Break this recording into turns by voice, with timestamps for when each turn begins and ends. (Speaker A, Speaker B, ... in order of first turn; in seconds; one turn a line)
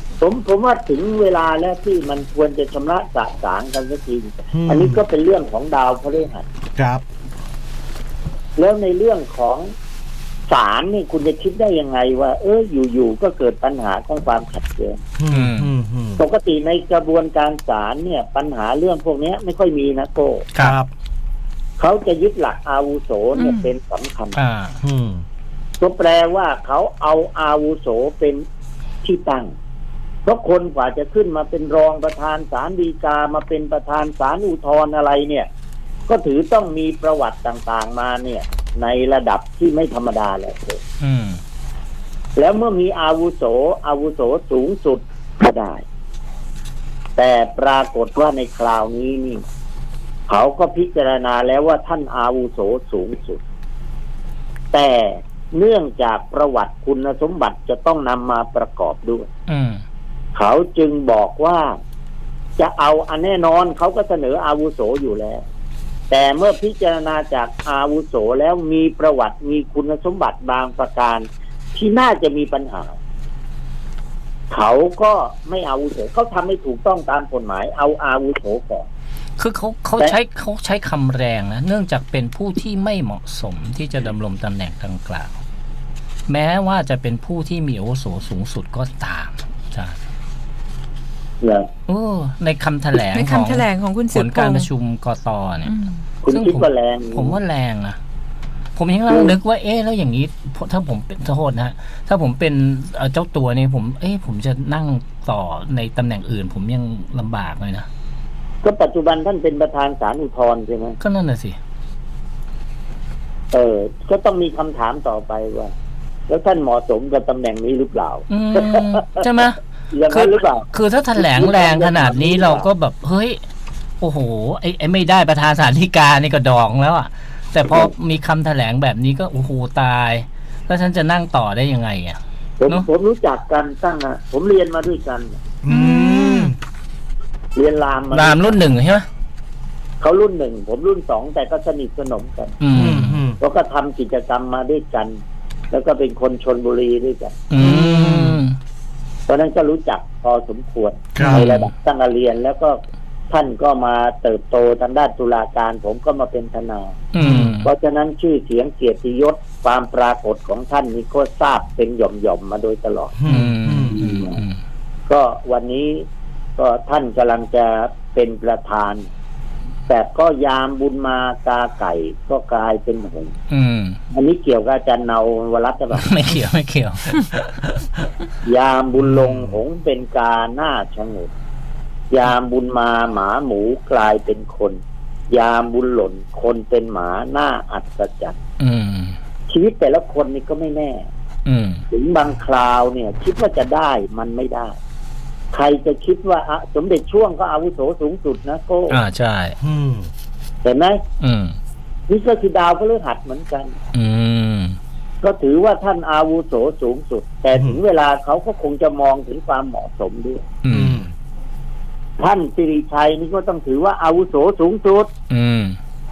Speaker A: 0.2-6.5
Speaker B: 4.5-5.0
Speaker B: 6.8-7.0
Speaker A: 8.6-9.7
Speaker A: 10.5-15.0
Speaker B: 15.2-16.2
Speaker C: 15.3-15.7
Speaker A: 16.2-20.5
Speaker B: 20.6-20.9
Speaker A: 21.8-24.4
Speaker D: 23.4-23.7
Speaker C: 24.4-24.8
Speaker B: 24.8-25.2
Speaker A: 25.8-28.4
Speaker A: 29.0-29.5
Speaker A: 30.2-35.5
Speaker A: 36.1-40.8
Speaker C: 41.0-41.4
Speaker A: 42.4-45.9
Speaker A: 47.2-49.4
Speaker A: 50.3-53.4
Speaker A: 54.7-59.3
Speaker C: 59.5-59.8
Speaker A: 60.4-61.7
Speaker A: 62.6-65.4
Speaker A: 66.1-73.0
Speaker A: 74.5-78.9
Speaker C: 79.4-85.3
Speaker C: 86.3-90.0
Speaker A: 91.4-91.7
Speaker C: 91.9-95.7
Speaker D: 93.0-94.7
Speaker D: 95.7-96.0
Speaker A: 96.2-97.4
Speaker C: 96.3-98.0
Speaker C: 98.8-107.9
Speaker A: 99.1-99.3
Speaker A: 108.6-111.0
Speaker C: 111.0-111.6
Speaker A: 113.5-115.7
Speaker A: 116.3-119.2
Speaker C: 118.3-123.4
Speaker A: 119.9-122.7
Speaker C: 124.0-132.2
Speaker A: 132.6-135.3
Speaker B: 135.6-136.6
Speaker D: 135.7-136.6
Speaker A: 137.6-138.6
Speaker C: 138.1-139.1
Speaker A: 140.0-142.6
Speaker C: 142.6-143.2
Speaker B: 142.7-143.4
Speaker A: 143.4-145.2
Speaker A: 145.7-147.4
Speaker C: 147.5-148.6
Speaker A: 149.3-152.8
Speaker B: 151.2-151.5
Speaker C: 151.2-151.7
Speaker A: 153.3-157.0
Speaker C: 157.1-157.7
Speaker B: 157.2-157.6
Speaker A: 157.6-163.1
Speaker B: 163.2-164.0
Speaker C: 163.3-164.6
Speaker A: 163.9-164.4
Speaker A: 165.1-166.1
Speaker A: 166.6-169.1
Speaker A: 169.9-173.3
Speaker C: 173.5-174.0
Speaker A: 174.1-176.1
Speaker C: 175.9-177.8
Speaker A: 178.4-181.3
Speaker B: 179.0-179.6
Speaker A: 182.1-184.8
Speaker A: 185.3-188.4
Speaker C: 188.6-189.2
Speaker A: 189.5-191.1
Speaker C: 191.5-191.8
Speaker A: 191.9-194.8
Speaker A: 195.5-199.0
Speaker C: 198.9-199.6
Speaker B: 199.6-200.1
Speaker A: 200.6-201.0
Speaker C: 201.2-201.6
Speaker A: 202.1-203.8
Speaker C: 203.9-204.8
Speaker A: 205.2-210.4
Speaker C: 210.6-211.0
Speaker B: 210.7-211.1
Speaker A: 212.2-215.1
Speaker C: 215.3-215.8